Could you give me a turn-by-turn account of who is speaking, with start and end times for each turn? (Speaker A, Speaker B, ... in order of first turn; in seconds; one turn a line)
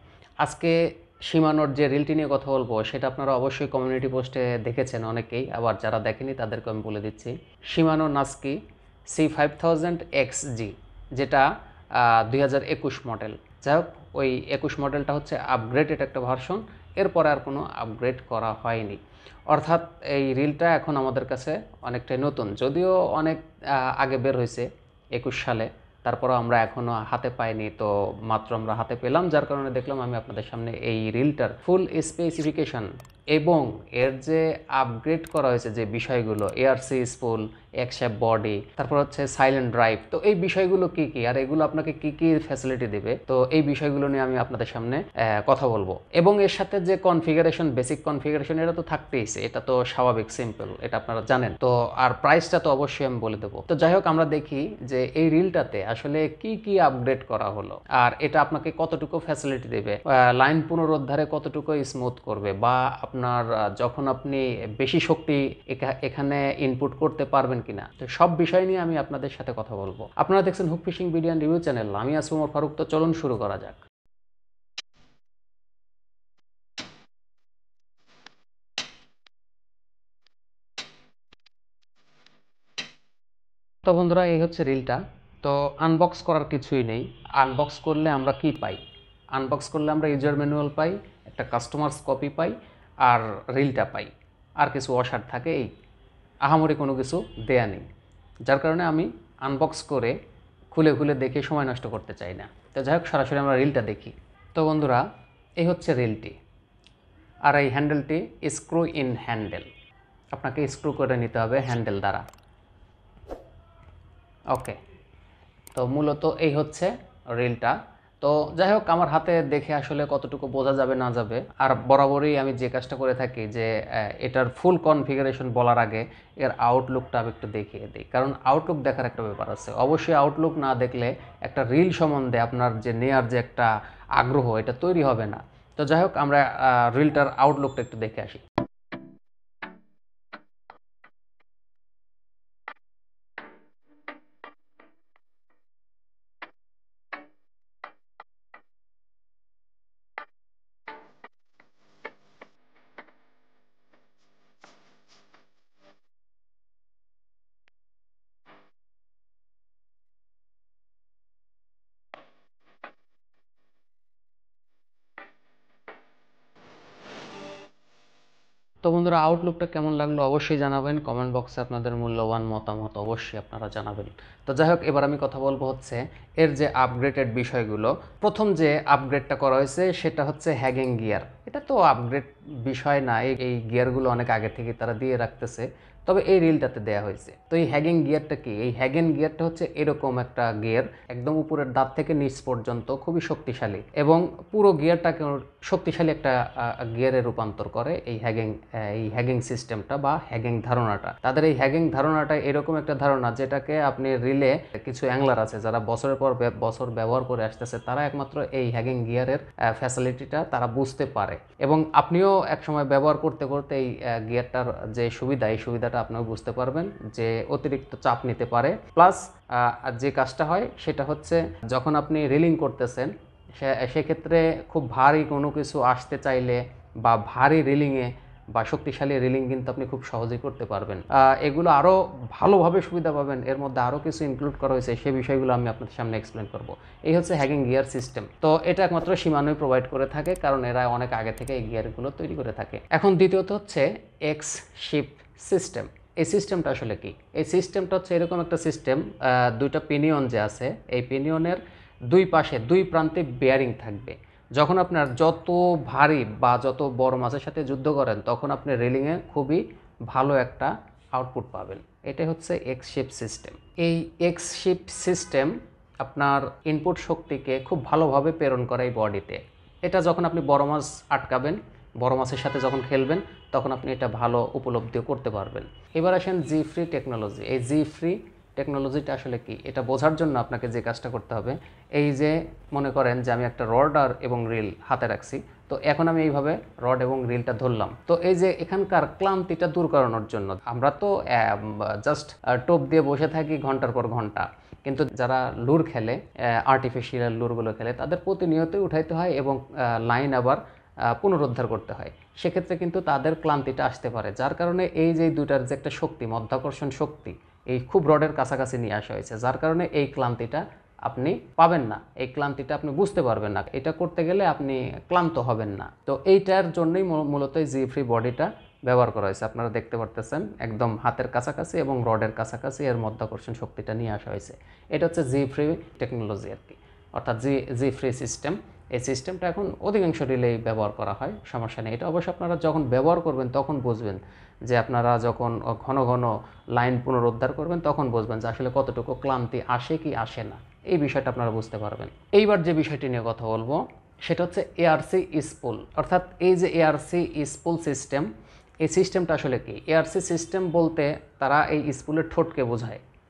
Speaker A: 0.4-73.8
Speaker A: 83.8-88.8
Speaker A: 89.3-95.7
Speaker A: 96.4-97.8
Speaker A: 98.5-100.2
Speaker A: 100.7-105.0
Speaker A: 105.6-106.3
Speaker A: 107.4-109.7
Speaker A: 110.3-112.2
Speaker A: 114.5-114.8
Speaker A: 115.7-138.4
Speaker A: 168.8-348.3
Speaker A: 348.8-353.0